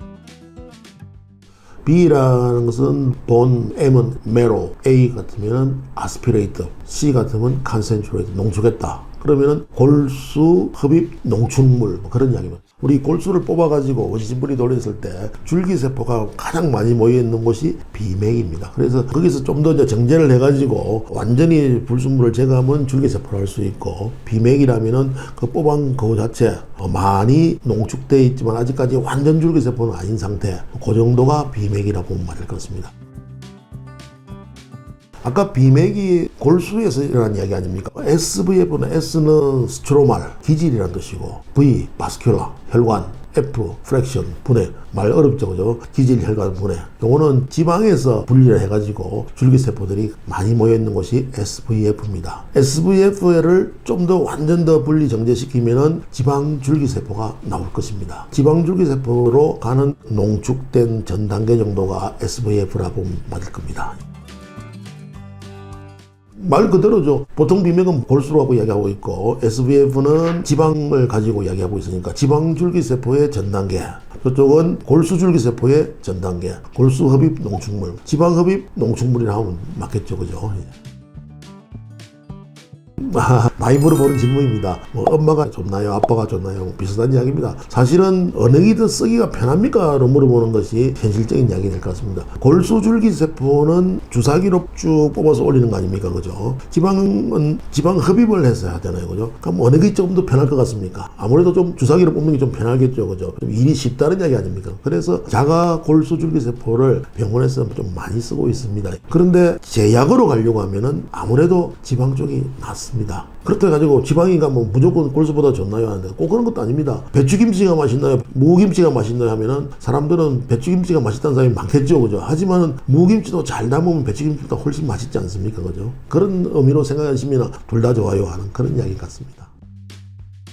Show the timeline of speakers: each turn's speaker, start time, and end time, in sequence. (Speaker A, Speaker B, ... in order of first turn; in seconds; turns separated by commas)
Speaker A: 1.8-32.9, Speaker A: 35.2-64.0, Speaker A: 66.4-80.7, Speaker A: 83.0-129.5